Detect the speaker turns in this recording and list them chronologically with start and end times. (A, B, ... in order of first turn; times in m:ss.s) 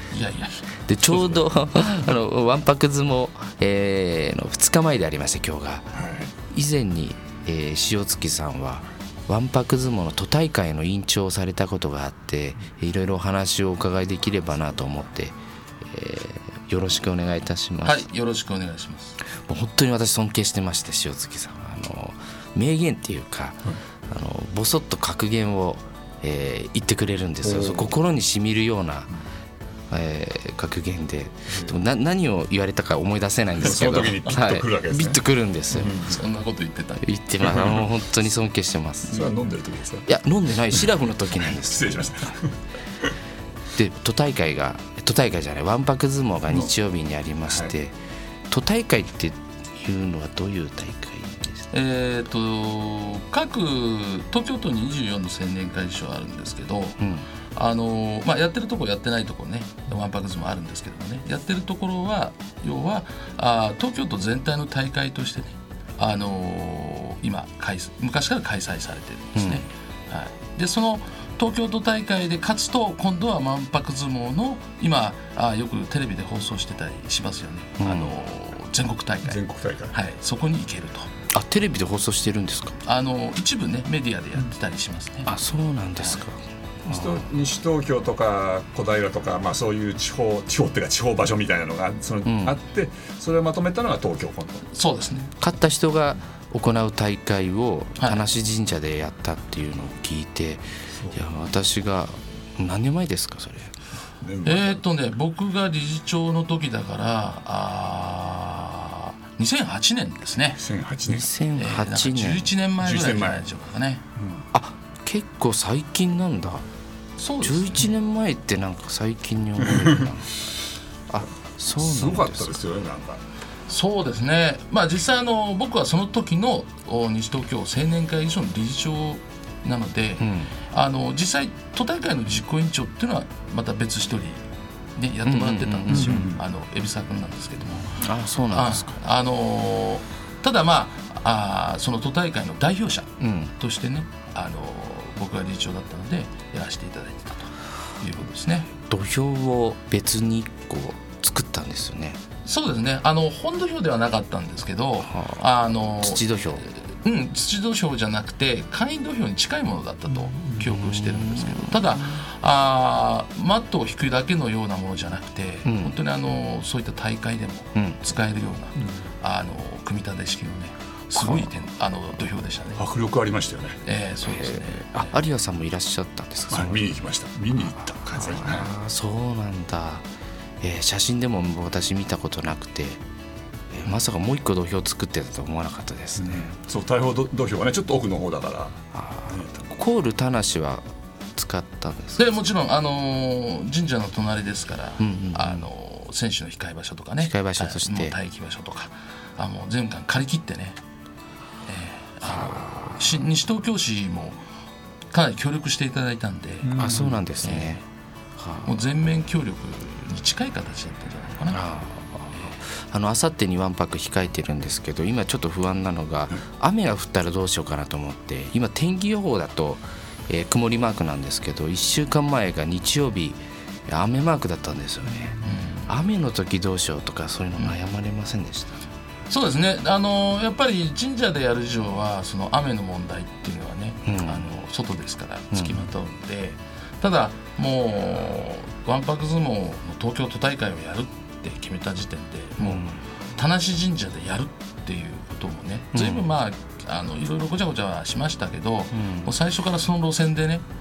0:00.1-0:01.4 A
0:00.9-0:05.9 B
0:06.0-0:06.3 C
0:06.5-0:18.0 B
0:17.8-0:19.2 A
0:19.5-0:29.1 B
0:27.4-0:27.9 C
0:29.9-0:36.0 B
0:33.6-0:35.2 C
0:35.7-0:36.2 C
0:36.1-0:37.1 A
0:37.0-0:39.3 B
0:37.4-0:37.8 C
0:39.1-0:40.1 C
0:40.1-0:41.9 B
0:41.5-0:42.6 C
0:43.8-0:48.0 B
0:48.5-0:51.7 B
0:51.7-0:57.0 A
0:57.0-0:57.3 B
0:57.5-1:19.4 A
1:09.4-1:09.7 B
1:17.8-1:18.2 B
1:19.3-1:19.9 C
1:19.9-1:21.1 A
1:21.3-1:22.8 B
1:22.8-1:25.3 A
1:25.3-1:27.2 B
1:26.8-1:34.6 C
1:32.2-1:32.6 B
1:34.7-1:35.3 A
1:35.4-1:43.8 B
1:38.0-1:38.2 A
1:41.0-1:41.2 C
1:44.2-1:44.8 C
1:44.4-1:50.6 A
1:50.6-1:51.3 C
1:51.1-1:52.5 B
1:51.6-1:54.0 A
1:52.8-1:53.4 C
1:54.2-1:54.4 C
1:54.5-1:56.7 B
1:57.2-1:57.9 A
1:57.4-2:00.4 B
2:01.1-2:02.6 B
2:01.8-2:03.2 C
2:03.7-2:14.4 A
2:10.2-2:10.5 B
2:15.0-2:18.0 A
2:15.2-2:16.3 B
2:15.9-2:16.4 C
2:18.0-2:19.0 B
2:18.5-2:28.7 A
2:23.2-2:23.5 B
2:28.9-2:32.2 B
2:32.4-2:52.8 A
2:35.1-2:35.4 B
2:36.0-2:36.6 B
2:40.6-2:42.2 B
2:45.6-2:46.0 B
2:47.8-2:48.0 B
2:51.2-2:51.5 B
2:52.8-2:53.8 C
2:53.8-2:55.1 A
2:54.2-2:56.9 B
2:56.5-2:58.7 C
2:57.8-3:00.1 B
3:00.6-3:03.0 B
3:03.7-3:06.5 B
3:06.2-3:09.7 C
3:08.9-3:10.8 B
3:11.4-3:12.4 B
3:12.2-3:20.8 A
3:15.0-3:15.7 B
3:17.2-3:18.2 B
3:21.7-3:24.4 A
3:22.2-3:23.1 B
3:25.1-3:27.8 A
3:26.6-3:27.2 C
3:26.8-3:27.8 B
3:28.4-3:28.8 B
3:28.6-3:31.6 A
3:31.5-3:48.8 B
3:45.4-3:45.9 A
3:49.3-4:10.6 A
3:54.0-3:54.5 B
3:55.5-3:55.8 B
4:02.6-4:03.0 B
4:05.9-4:06.3 B
4:08.9-4:09.3 B